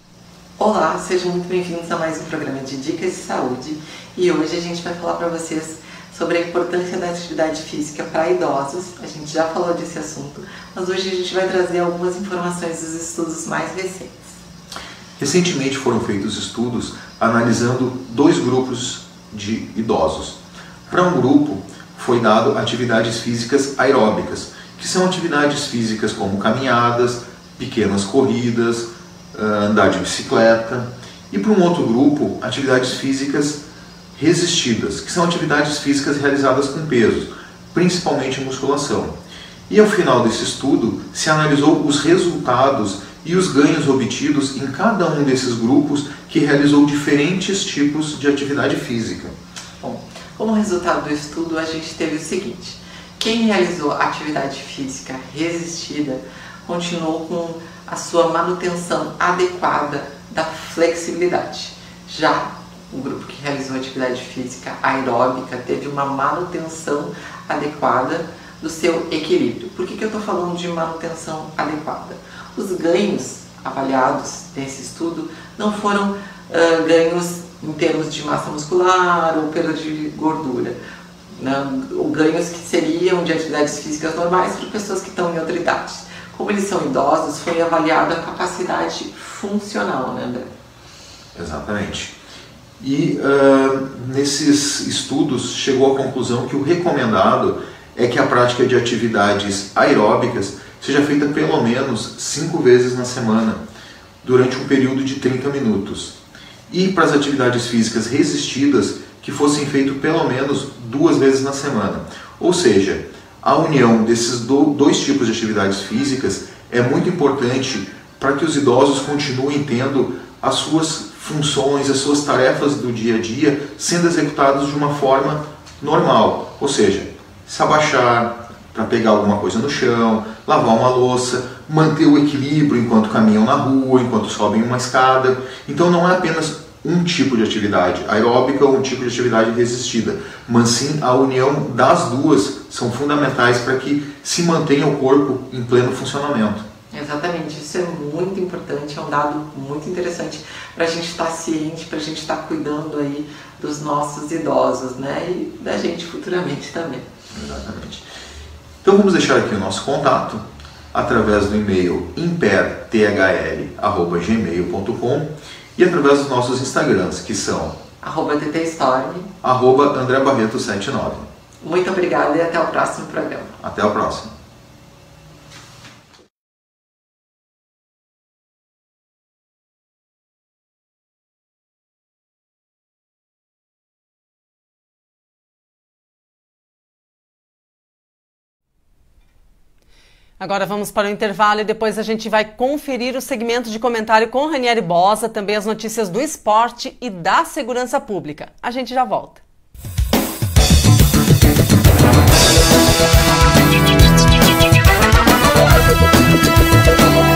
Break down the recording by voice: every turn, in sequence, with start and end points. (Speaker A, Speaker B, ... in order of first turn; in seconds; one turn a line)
Speaker A: 0.6-14.4
Speaker B: 15.2-33.6
Speaker B: 34.1-49.3
Speaker A: 49.8-80.8
Speaker A: 81.3-90.5
Speaker B: 91.3-92.1
Speaker B: 92.8-103.6
Speaker B: 104.2-106.2
Speaker B: 106.7-146.6
Speaker A: 146.9-157.1
Speaker B: 157.3-158.0
Speaker B: 158.8-167.8
Speaker A: 168.0-169.3
Speaker B: 169.4-171.3
Speaker A: 171.6-173.5
Speaker B: 173.6-174.3
Speaker C: 190.4-199.4